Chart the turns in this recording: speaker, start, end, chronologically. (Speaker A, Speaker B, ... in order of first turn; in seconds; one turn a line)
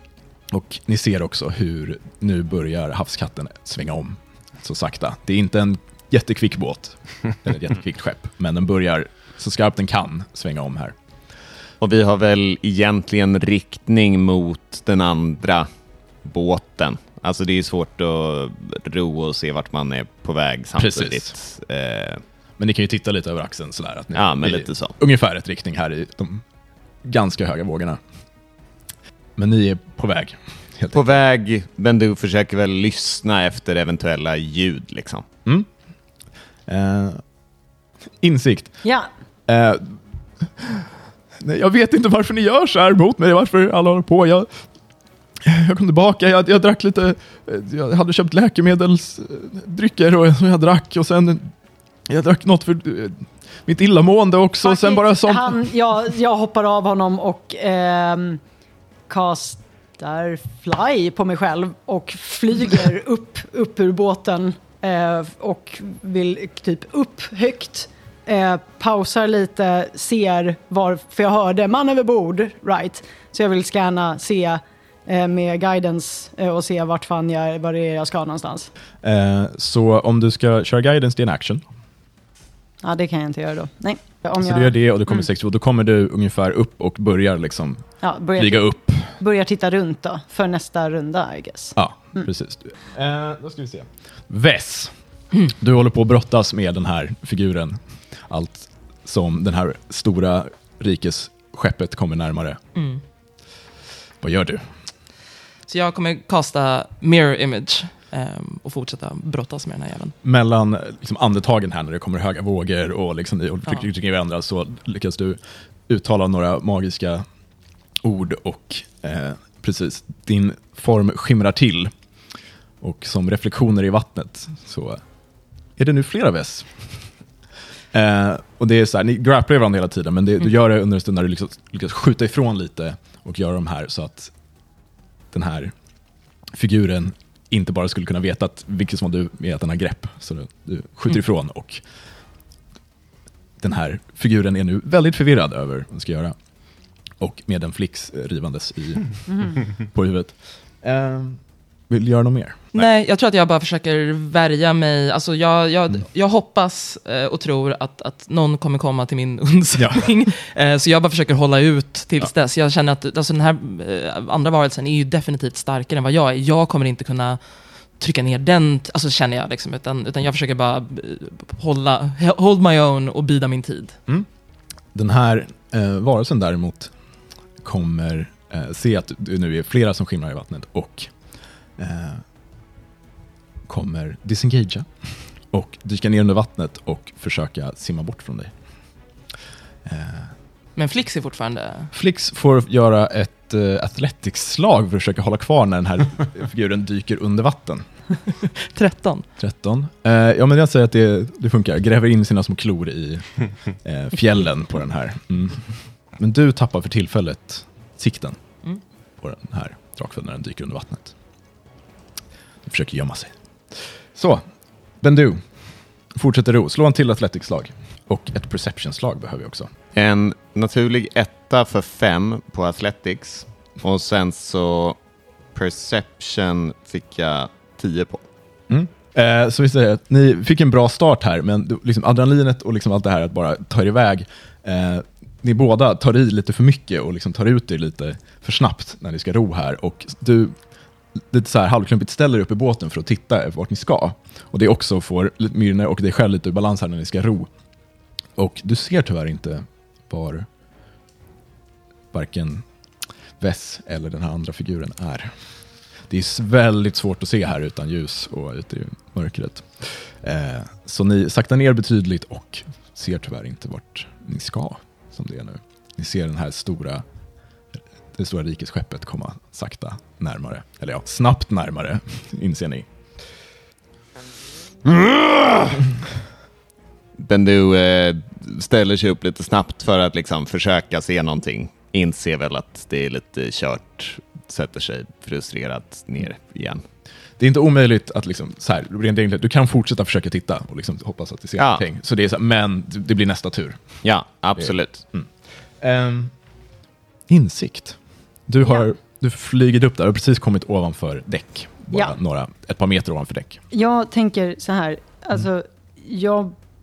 Speaker A: 0.5-10.9
Speaker B: 11.8-15.7
Speaker B: 16.2-22.2
Speaker A: 20.8-21.3
Speaker A: 22.6-26.4
Speaker B: 24.1-24.9
Speaker A: 27.0-28.0
Speaker A: 29.4-31.0
Speaker B: 30.9-35.2
Speaker A: 36.7-37.2
Speaker A: 38.2-38.8
Speaker A: 39.5-40.9
Speaker A: 41.4-44.5
Speaker A: 45.4-51.5
Speaker A: 52.1-55.6
Speaker C: 54.6-58.4
Speaker C: 59.1-78.7
Speaker A: 79.0-81.6
Speaker C: 82.8-84.7
Speaker A: 84.4-89.1
Speaker C: 88.0-92.3
Speaker A: 91.8-102.6
Speaker D: 102.8-103.0
Speaker A: 104.2-104.6
Speaker D: 105.7-110.1
Speaker A: 110.2-117.2
Speaker A: 118.0-121.9
Speaker A: 122.8-125.0
Speaker A: 125.8-127.0
Speaker A: 127.9-134.3
Speaker A: 135.3-135.7
Speaker A: 136.5-141.8
Speaker A: 143.6-146.3
Speaker A: 147.2-152.9
Speaker D: 152.7-167.4
Speaker A: 159.8-160.1
Speaker D: 168.0-173.9
Speaker A: 174.9-176.9
Speaker A: 177.6-181.1
Speaker A: 181.8-182.2
Speaker A: 183.7-184.9
Speaker A: 185.5-188.5
Speaker A: 189.8-190.3
Speaker D: 190.8-191.9
Speaker A: 191.9-197.8
Speaker D: 198.6-199.2
Speaker A: 199.4-203.3
Speaker A: 203.8-208.4
Speaker A: 209.2-211.1
Speaker A: 212.7-214.4
Speaker A: 215.0-215.4
Speaker A: 216.1-219.7
Speaker B: 219.9-225.0
Speaker B: 225.5-228.2
Speaker A: 228.7-240.5
Speaker A: 241.2-247.5
Speaker A: 248.4-250.5
Speaker A: 252.1-252.6
Speaker A: 253.4-255.3
Speaker A: 256.1-267.0
Speaker A: 268.1-272.9
Speaker B: 277.2-286.8
Speaker A: 287.4-293.8
Speaker B: 291.6-291.8
Speaker B: 294.0-295.0
Speaker A: 294.5-295.3
Speaker A: 295.8-296.3
Speaker A: 297.3-303.6
Speaker C: 303.7-306.5